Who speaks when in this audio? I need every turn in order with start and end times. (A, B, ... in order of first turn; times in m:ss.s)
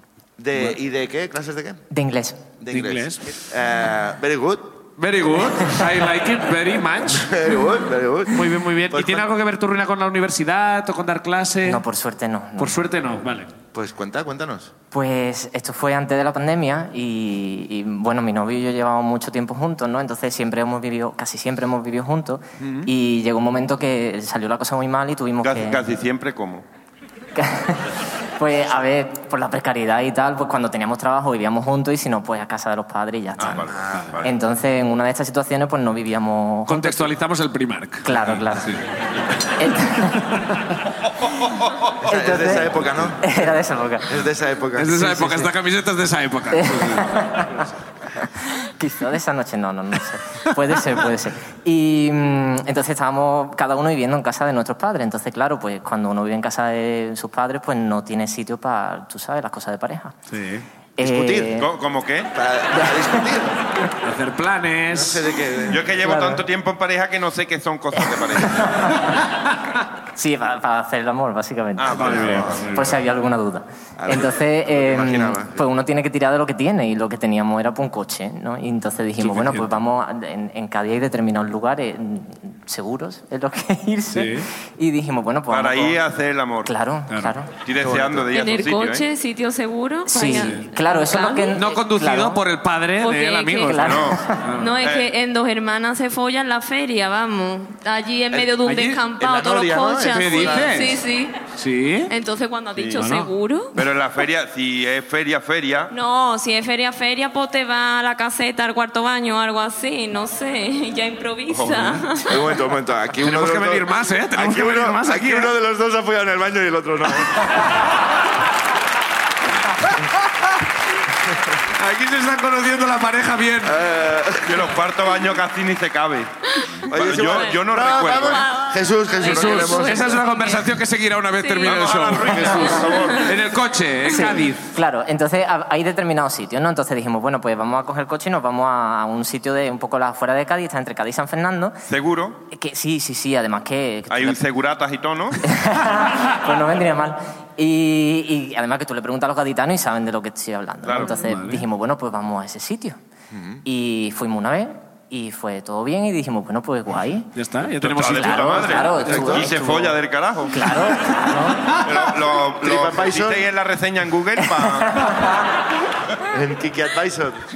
0:00.4-0:01.8 A
0:01.9-0:02.6 B
0:02.6-0:04.8 A
0:02.7-0:03.3 C
0:05.0-0:07.3 C
0:07.1-0:09.3 A
0:08.3-0:11.8 C
0:11.6-0:12.8 B
0:12.6-0:13.5 C
0:13.7-0:14.7 A
0:14.9-0:25.8 B
0:22.6-0:22.9 C
0:25.4-0:26.6 D
0:27.4-0:37.1 B
0:33.4-0:34.3 D
0:33.7-0:34.2 A
0:36.7-0:38.8 C
0:38.0-0:38.8 B
0:39.6-0:40.5 B
0:42.0-0:43.4 A
0:42.1-0:44.2 B
0:44.1-0:45.5 A
0:44.8-0:47.1 C
0:46.5-0:47.6 B
0:48.2-1:00.2 B
1:00.3-1:00.7 C
1:01.0-1:01.7 B
1:01.0-1:01.6 A
1:01.6-1:02.3 D
1:02.3-1:03.6 A
1:02.8-1:03.2 B
1:04.0-1:05.2 C
1:04.9-1:06.0 A
1:05.7-1:08.8 D
1:06.0-1:06.4 B
1:08.0-1:09.2 B
1:10.2-1:26.0 B
1:11.8-1:12.5 D
1:11.9-1:12.7 A
1:11.9-1:12.9 C
1:14.0-1:15.6 A
1:19.2-1:19.7 C
1:24.1-1:24.5 C
1:25.5-1:26.7 D
1:26.6-1:27.6 B
1:27.1-1:27.4 C
1:27.6-1:29.1 D
1:28.3-1:31.6 E
1:30.1-1:32.4 B
1:30.3-1:30.6 C
1:31.5-1:34.8 C
1:33.0-1:33.9 E
1:33.7-1:34.5 B
1:33.8-1:34.2 D
1:34.6-1:41.4 E
1:34.8-1:35.1 D
1:38.6-1:39.0 C
1:39.2-1:40.9 A
1:40.1-1:41.0 C
1:41.6-1:42.1 C
1:42.1-1:43.8 E
1:42.8-1:43.1 D
1:43.0-1:43.3 C
1:43.8-1:45.9 D
1:45.9-1:52.3 E
1:51.5-1:51.9 D
1:52.3-1:57.6 A
1:53.2-1:55.5 C
2:01.8-2:03.8 C
2:03.6-2:04.7 A
2:04.4-2:06.3 D
2:06.6-2:10.7 E
2:06.9-2:08.5 D
2:06.9-2:10.2 A
2:09.2-2:14.7 C
2:11.4-2:11.8 E
2:11.6-2:13.4 D
2:12.9-2:13.3 E
2:14.1-2:21.8 B
2:21.9-2:22.4 D
2:22.5-2:24.4 B
2:24.1-2:25.4 D
2:25.4-2:33.0 B
2:30.8-2:31.2 D
2:31.0-2:31.7 C
2:33.3-2:33.6 A
2:33.6-2:37.3 B
2:37.4-2:39.2 C
2:37.8-2:40.6 D
2:38.1-2:40.0 B
2:39.0-2:39.5 A
2:40.5-2:41.7 B
2:41.8-2:45.2 D
2:42.6-2:43.4 A
2:44.4-2:45.5 B
2:46.3-2:47.4 A